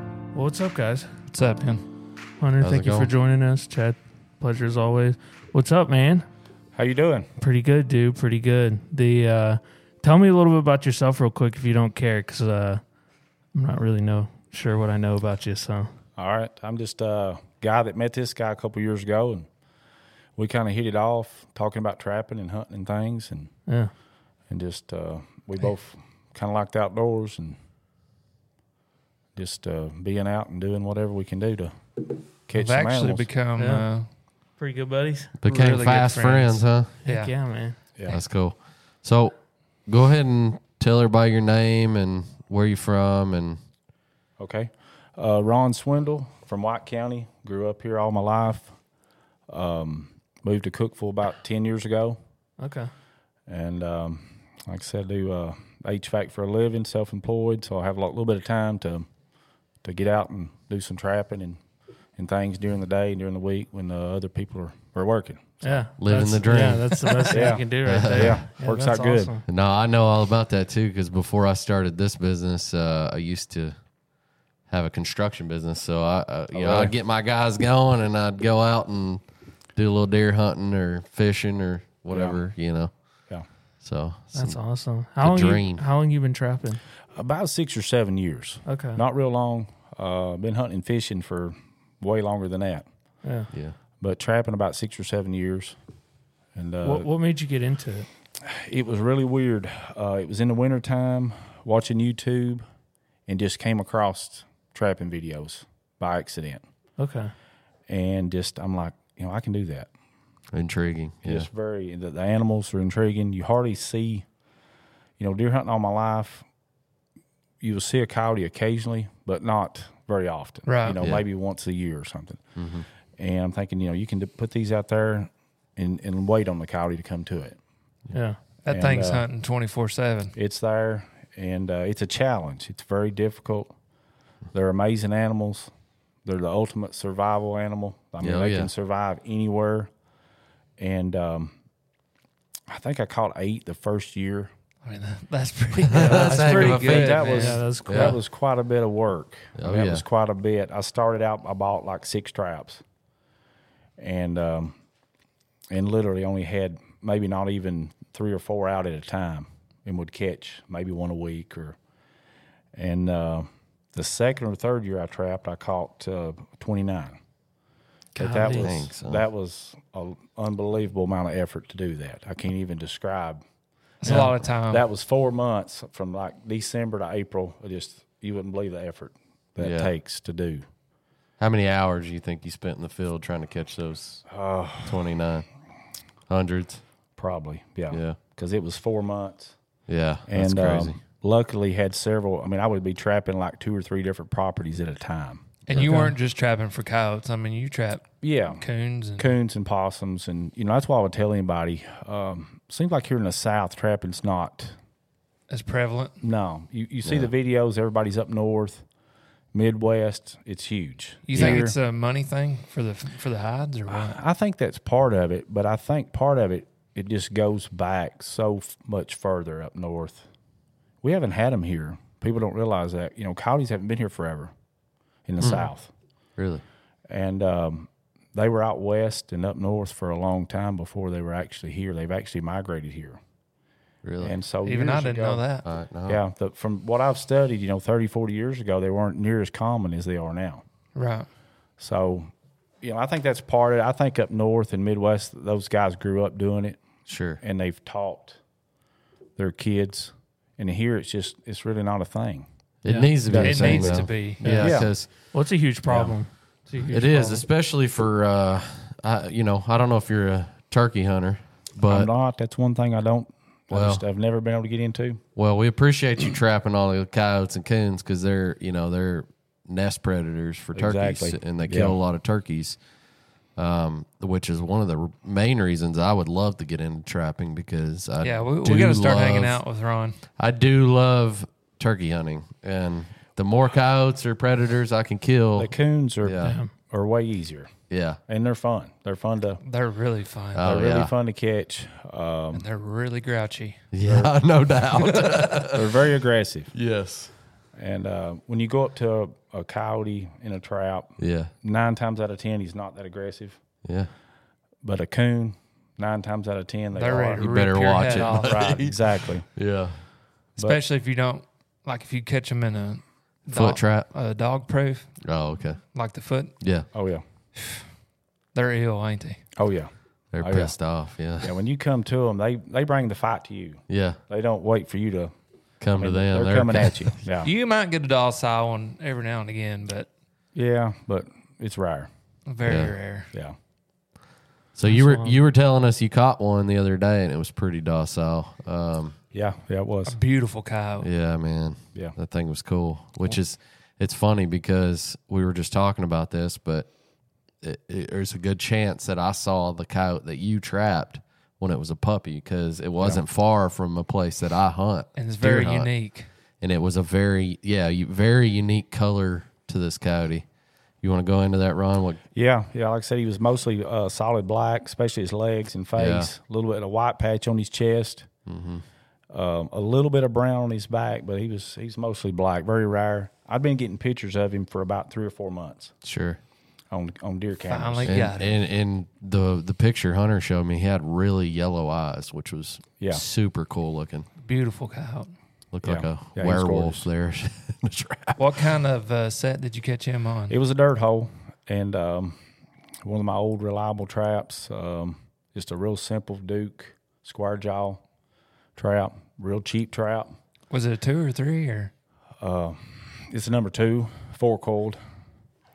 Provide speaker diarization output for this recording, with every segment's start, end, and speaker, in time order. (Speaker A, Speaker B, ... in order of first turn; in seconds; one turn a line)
Speaker A: 0.3-1.1
Speaker B: 1.3-1.8
Speaker A: 2.4-6.3
Speaker C: 2.6-3.1
Speaker D: 6.7-7.3
Speaker A: 7.4-12.8
Speaker A: 13.5-15.9
Speaker D: 16.2-19.5
Speaker D: 20.4-23.5
Speaker D: 24.5-27.6
Speaker D: 29.3-31.7
Speaker D: 32.5-33.3
Speaker B: 32.5-34.1
Speaker A: 33.6-33.9
Speaker A: 34.6-35.4
Speaker C: 35.4-36.9
Speaker B: 35.5-37.3
Speaker A: 37.0-37.8
Speaker C: 38.1-39.3
Speaker C: 39.9-43.6
Speaker D: 44.4-48.8
Speaker D: 49.5-52.2
Speaker A: 52.6-52.9
Speaker D: 53.5-59.1
Speaker D: 59.8-61.6
Speaker D: 62.2-65.9
Speaker A: 65.6-69.4
Speaker C: 66.0-67.3
Speaker B: 67.0-67.5
Speaker D: 67.3-69.3
Speaker C: 67.8-68.4
Speaker C: 69.5-73.8
Speaker C: 74.7-79.2
Speaker D: 76.5-76.9
Speaker C: 79.8-82.9
Speaker D: 82.1-82.4
Speaker C: 83.8-84.6
Speaker A: 84.3-86.8
Speaker C: 85.2-85.9
Speaker D: 87.1-92.9
Speaker A: 88.7-89.0
Speaker A: 93.2-93.5
Speaker D: 94.0-95.8
Speaker D: 96.5-97.1
Speaker A: 96.8-98.1
Speaker D: 98.4-102.6
Speaker D: 103.3-106.6
Speaker A: 107.0-107.3
Speaker D: 107.9-109.9
Speaker C: 110.5-111.5
Speaker D: 111.2-114.2
Speaker D: 115.2-116.5
Speaker D: 117.6-122.5
Speaker B: 120.7-121.0
Speaker C: 122.6-122.9
Speaker D: 123.2-127.6
Speaker A: 128.1-128.4
Speaker B: 128.6-130.3
Speaker D: 128.7-129.2
Speaker D: 130.3-133.7
Speaker D: 134.5-135.7
Speaker D: 136.2-139.9
Speaker C: 138.2-138.7
Speaker D: 140.8-141.6
Speaker D: 142.7-144.5
Speaker B: 144.8-147.6
Speaker C: 145.8-147.2
Speaker D: 145.9-152.8
Speaker A: 145.9-148.2
Speaker C: 147.9-148.2
Speaker C: 149.6-150.0
Speaker D: 154.0-154.8
Speaker D: 155.7-161.8
Speaker D: 162.7-167.2
Speaker A: 168.2-168.7
Speaker D: 168.2-173.4
Speaker C: 168.6-169.2
Speaker B: 174.0-174.9
Speaker D: 174.1-180.6
Speaker C: 179.6-179.9
Speaker C: 181.4-184.3
Speaker D: 184.3-185.0
Speaker C: 184.8-185.5
Speaker C: 186.3-186.8
Speaker D: 187.2-189.6
Speaker C: 187.9-188.2
Speaker C: 189.9-191.0
Speaker D: 190.3-195.7
Speaker B: 195.7-199.3
Speaker A: 195.8-196.1
Speaker D: 198.2-198.6
Speaker D: 199.2-204.8
Speaker B: 205.5-206.2
Speaker D: 206.2-208.8
Speaker D: 209.5-211.8
Speaker B: 211.3-214.2
Speaker D: 213.9-220.3
Speaker D: 221.0-224.5
Speaker D: 225.2-225.9
Speaker C: 225.4-225.7
Speaker C: 226.4-226.6
Speaker D: 227.1-233.2
Speaker C: 234.0-234.3
Speaker D: 234.2-235.5
Speaker B: 234.7-235.7
Speaker C: 235.6-236.2
Speaker D: 236.1-240.6
Speaker B: 240.9-241.3
Speaker D: 241.8-246.8
Speaker C: 247.1-247.4
Speaker D: 247.4-248.4
Speaker D: 249.4-252.5
Speaker C: 252.8-255.1
Speaker A: 252.9-253.1
Speaker D: 253.2-254.9
Speaker B: 253.3-254.6
Speaker A: 254.4-254.8
Speaker A: 255.3-257.4
Speaker C: 255.9-256.1
Speaker C: 256.9-262.1
Speaker D: 261.9-265.2
Speaker C: 263.7-264.0
Speaker C: 265.4-272.8
Speaker D: 270.7-272.0
Speaker C: 273.6-279.6
Speaker B: 278.2-280.2
Speaker C: 280.4-285.7
Speaker D: 285.6-287.7
Speaker C: 286.2-286.6
Speaker A: 286.4-286.7
Speaker C: 287.9-288.2
Speaker D: 288.3-289.6
Speaker B: 289.6-290.7
Speaker C: 290.6-291.1
Speaker D: 290.6-292.6
Speaker B: 292.5-293.9
Speaker C: 293.9-295.9
Speaker D: 294.0-294.3
Speaker B: 295.0-295.6
Speaker D: 295.6-296.7
Speaker C: 296.7-297.3
Speaker D: 297.8-303.6
Speaker C: 301.2-301.5
Speaker C: 303.8-304.1
Speaker D: 304.8-307.5
Speaker B: 306.9-308.8
Speaker C: 307.4-310.0
Speaker D: 308.3-309.5
Speaker B: 310.6-315.2
Speaker C: 313.5-314.1
Speaker C: 315.2-315.8
Speaker B: 315.9-316.6
Speaker C: 316.6-316.9
Speaker D: 316.9-317.2
Speaker B: 317.6-317.8
Speaker B: 318.5-319.4
Speaker D: 319.6-320.8
Speaker C: 320.3-321.5
Speaker D: 321.4-325.3
Speaker C: 323.9-324.2
Speaker C: 325.8-327.0
Speaker D: 326.0-327.5
Speaker B: 327.4-330.1
Speaker D: 330.6-332.1
Speaker B: 332.5-333.3
Speaker C: 332.6-332.9
Speaker C: 334.8-339.2
Speaker A: 334.9-335.4
Speaker D: 339.3-340.2
Speaker B: 340.1-341.1
Speaker C: 341.0-346.9
Speaker C: 347.6-355.9
Speaker B: 355.2-356.3
Speaker C: 356.6-360.5
Speaker C: 361.0-362.2
Speaker D: 362.3-368.3
Speaker C: 366.0-366.3
Speaker C: 368.5-368.8
Speaker D: 369.3-375.9
Speaker C: 376.0-376.4
Speaker D: 376.9-378.2
Speaker B: 377.7-378.5
Speaker C: 378.1-384.3
Speaker B: 384.4-385.3
Speaker C: 385.7-388.4
Speaker D: 385.8-387.1
Speaker B: 388.4-390.6
Speaker D: 390.5-392.4
Speaker D: 393.0-398.0
Speaker D: 398.8-400.4
Speaker B: 400.7-401.9
Speaker D: 402.4-405.0